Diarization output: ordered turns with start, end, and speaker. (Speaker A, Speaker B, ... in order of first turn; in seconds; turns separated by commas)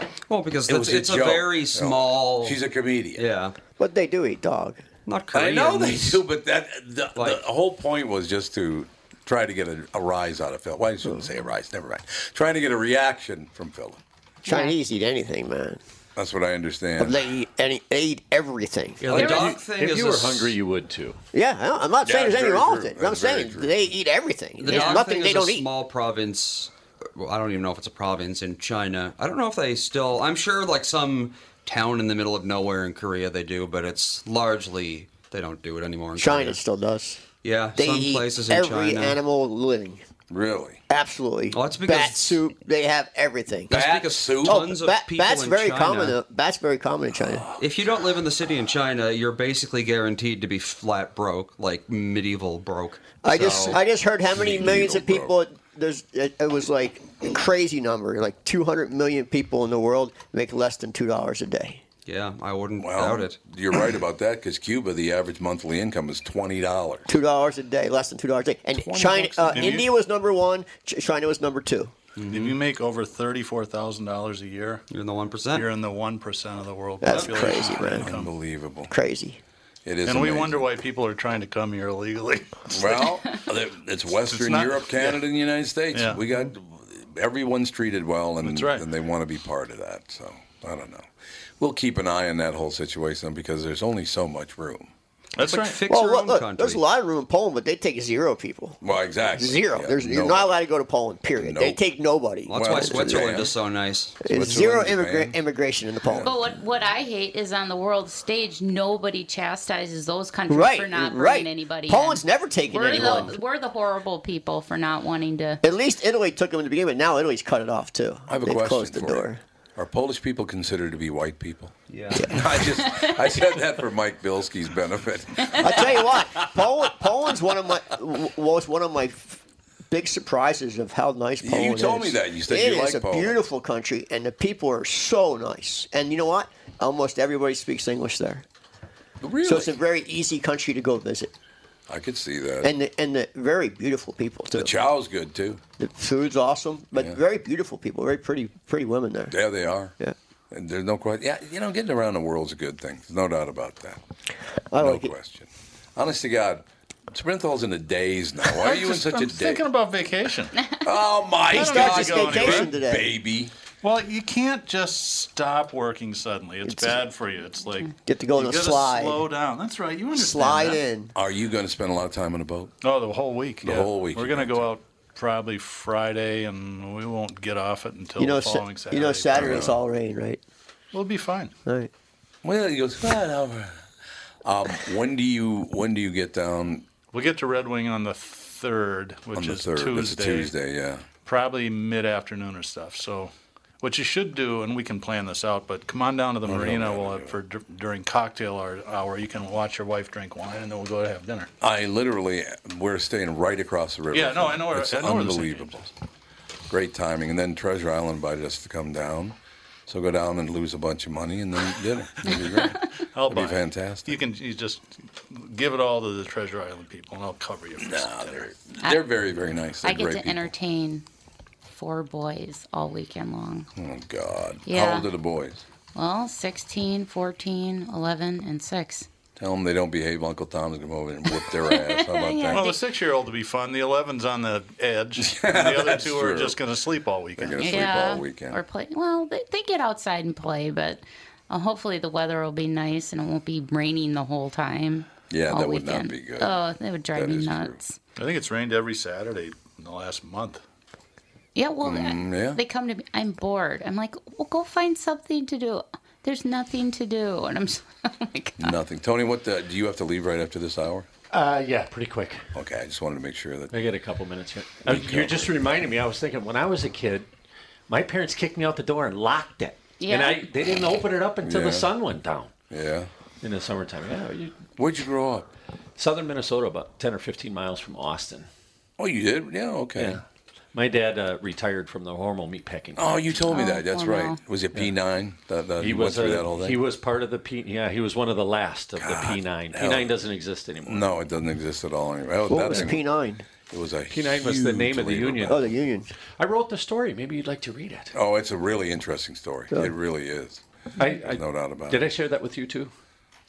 Speaker A: 0.3-2.6, Speaker B: 0.7-3.2, Speaker A: 3.1-3.6, Speaker C: 3.8-4.8, Speaker A: 5.0-6.2, Speaker B: 5.3-14.0, Speaker A: 7.1-7.4, Speaker D: 14.4-14.8, Speaker C: 14.4-15.8, Speaker B: 16.1-17.2, Speaker C: 17.0-19.2, Speaker A: 19.0-20.5, Speaker E: 19.1-21.2, Speaker D: 19.1-19.5, Speaker C: 21.3-25.6, Speaker B: 22.0-23.8, Speaker A: 24.6-36.6, Speaker C: 36.2-37.2, Speaker A: 37.4-39.2, Speaker C: 37.7-40.0, Speaker B: 40.3-40.8, Speaker C: 40.9-47.5, Speaker A: 41.5-42.4, Speaker B: 43.7-44.6, Speaker A: 43.7-46.2, Speaker B: 47.3-47.6, Speaker A: 47.6-53.0, Speaker C: 53.2-61.8, Speaker B: 53.3-53.8, Speaker E: 53.4-53.8, Speaker B: 54.3-55.4, Speaker A: 62.0-63.4, Speaker B: 62.8-67.1, Speaker C: 67.1-71.9, Speaker B: 68.7-69.8, Speaker F: 69.5-69.9, Speaker A: 72.2-72.6, Speaker F: 72.3-74.8, Speaker A: 74.9-75.7, Speaker F: 75.5-78.3, Speaker C: 77.0-78.1, Speaker B: 77.2-78.9, Speaker C: 78.9-79.4, Speaker B: 79.8-80.7, Speaker F: 80.0-83.1, Speaker B: 82.7-91.1, Speaker F: 84.2-85.2, Speaker F: 85.9-86.3, Speaker F: 88.4-88.8, Speaker B: 91.6-94.9, Speaker F: 95.3-95.8, Speaker A: 95.4-96.8, Speaker C: 95.9-98.8, Speaker B: 98.8-100.5, Speaker C: 99.3-103.5, Speaker B: 101.4-101.8, Speaker A: 102.5-104.2, Speaker B: 102.5-103.5, Speaker C: 104.2-106.3, Speaker B: 104.2-105.3, Speaker B: 106.0-106.3, Speaker D: 106.2-115.6, Speaker C: 110.5-113.4, Speaker C: 115.6-119.4, Speaker B: 118.3-126.3, Speaker C: 122.1-122.4, Speaker D: 122.6-123.4, Speaker C: 125.6-138.4, Speaker B: 131.4-133.4, Speaker B: 139.2-139.8, Speaker C: 139.4-141.3, Speaker B: 141.9-142.7, Speaker C: 142.6-144.7, Speaker B: 144.5-145.6, Speaker C: 145.8-149.3, Speaker B: 149.3-149.9, Speaker B: 150.5-154.0, Speaker C: 154.7-155.1, Speaker B: 154.8-159.6, Speaker F: 158.5-160.6, Speaker B: 160.8-163.5, Speaker F: 161.5-162.7, Speaker C: 161.5-163.1, Speaker F: 163.8-170.8, Speaker C: 166.7-167.0, Speaker C: 168.1-169.2, Speaker C: 170.2-171.1, Speaker B: 171.1-172.7, Speaker F: 172.8-179.7, Speaker B: 173.6-174.7, Speaker C: 178.2-180.4, Speaker B: 179.3-179.8, Speaker F: 180.9-181.5, Speaker B: 182.4-183.8, Speaker B: 184.4-186.9, Speaker F: 187.1-190.5, Speaker B: 189.3-191.0, Speaker F: 191.2-201.5, Speaker B: 196.4-197.4, Speaker B: 201.6-205.9, Speaker F: 204.1-205.8, Speaker B: 206.7-214.2, Speaker F: 212.6-218.5, Speaker B: 217.8-220.5, Speaker D: 218.8-219.1, Speaker D: 219.8-221.0, Speaker D: 221.7-223.7, Speaker B: 223.8-225.6, Speaker D: 224.7-225.1, Speaker D: 225.9-229.1, Speaker B: 229.3-232.7, Speaker D: 231.3-232.8, Speaker F: 232.5-237.9, Speaker B: 235.2-236.6, Speaker B: 237.4-238.6, Speaker D: 237.6-248.0, Speaker B: 245.3-246.5, Speaker B: 247.1-247.8, Speaker F: 248.2-250.6, Speaker D: 251.5-258.8, Speaker B: 251.8-252.6, Speaker B: 258.6-261.1, Speaker E: 261.3-262.4, Speaker B: 262.5-263.7, Speaker E: 263.7-267.3, Speaker B: 264.9-265.5, Speaker E: 267.9-272.5, Speaker D: 270.0-270.4, Speaker B: 271.4-271.9, Speaker B: 272.7-273.1, Speaker E: 273.4-274.6, Speaker B: 274.8-275.5, Speaker E: 276.0-278.5, Speaker B: 279.0-280.2, Speaker E: 279.9-280.2, Speaker E: 280.7-283.2, Speaker B: 282.9-286.8, Speaker D: 283.5-284.4, Speaker E: 285.8-291.2, Speaker B: 289.0-290.2, Speaker B: 290.9-293.0, Speaker C: 292.5-293.4, Speaker B: 293.7-295.7, Speaker E: 294.1-295.7, Speaker C: 295.5-296.1, Speaker E: 296.4-298.1, Speaker B: 298.1-302.0, Speaker E: 301.0-302.9